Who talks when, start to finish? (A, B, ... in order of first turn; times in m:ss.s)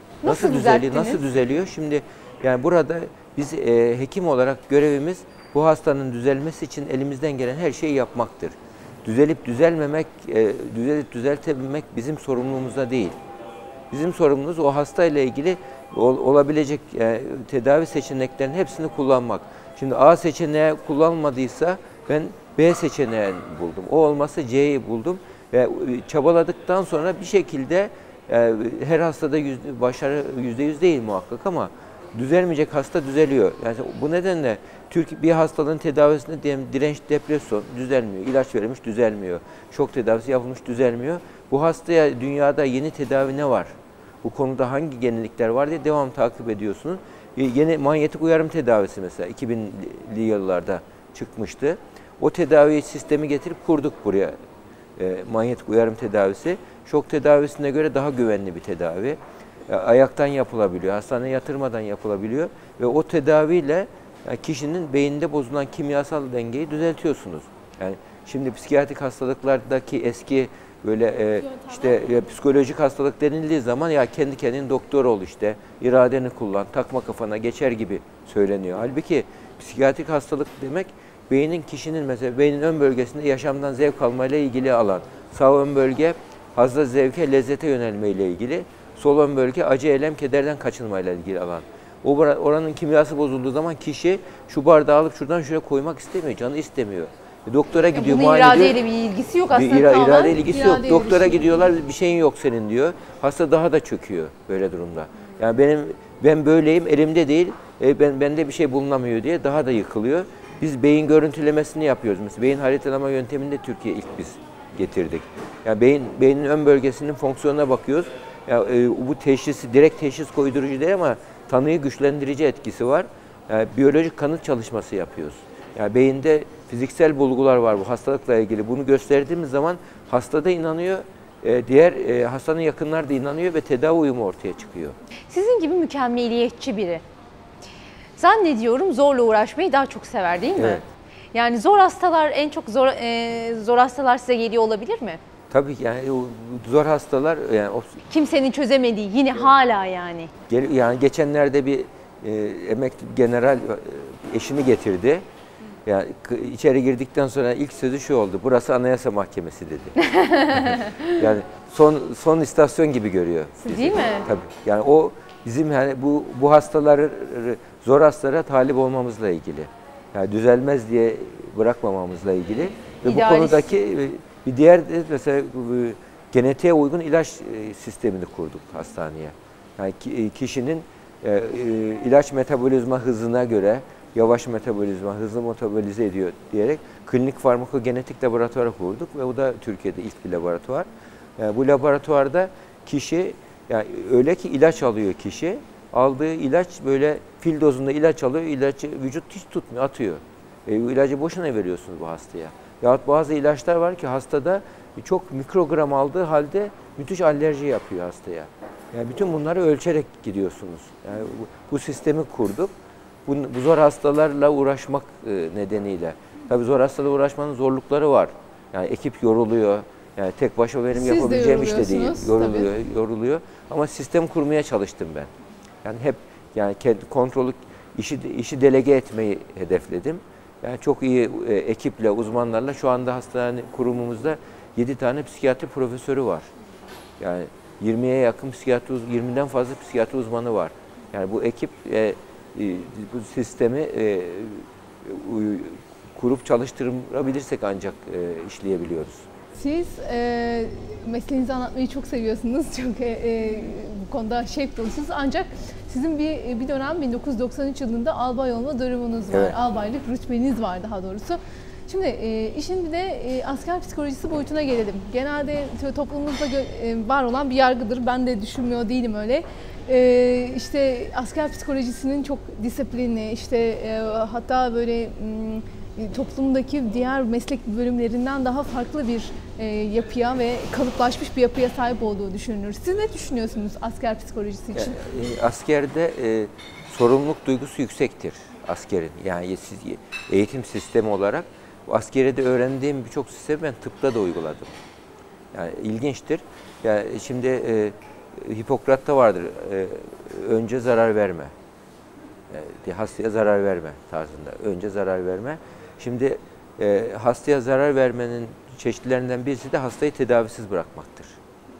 0:00.2-0:01.2 A
0:00.2-0:13.2 B
0:13.9-0:43.7 B
0:44.2-0:54.4 B
0:55.0-1:38.8 B
1:37.9-1:40.4 A
1:39.5-2:15.0 B
1:40.5-1:41.7 C
2:15.3-2:17.0 A
2:18.2-2:25.2 A
2:20.6-2:20.8 B
2:25.5-2:28.0 B
2:28.1-2:30.3 A
2:30.5-2:35.2 B
2:35.8-3:32.7 B
2:40.0-2:41.1 A
2:43.6-2:44.3 A
2:53.0-2:53.7 A
3:33.2-3:45.3 B
3:40.9-3:42.7 C
3:45.8-3:56.5 B
3:57.2-4:09.2 B
4:09.6-4:45.0 C
4:19.3-4:19.6 B
4:44.7-4:54.7 B
4:55.5-5:01.5 B
5:02.5-5:11.4 B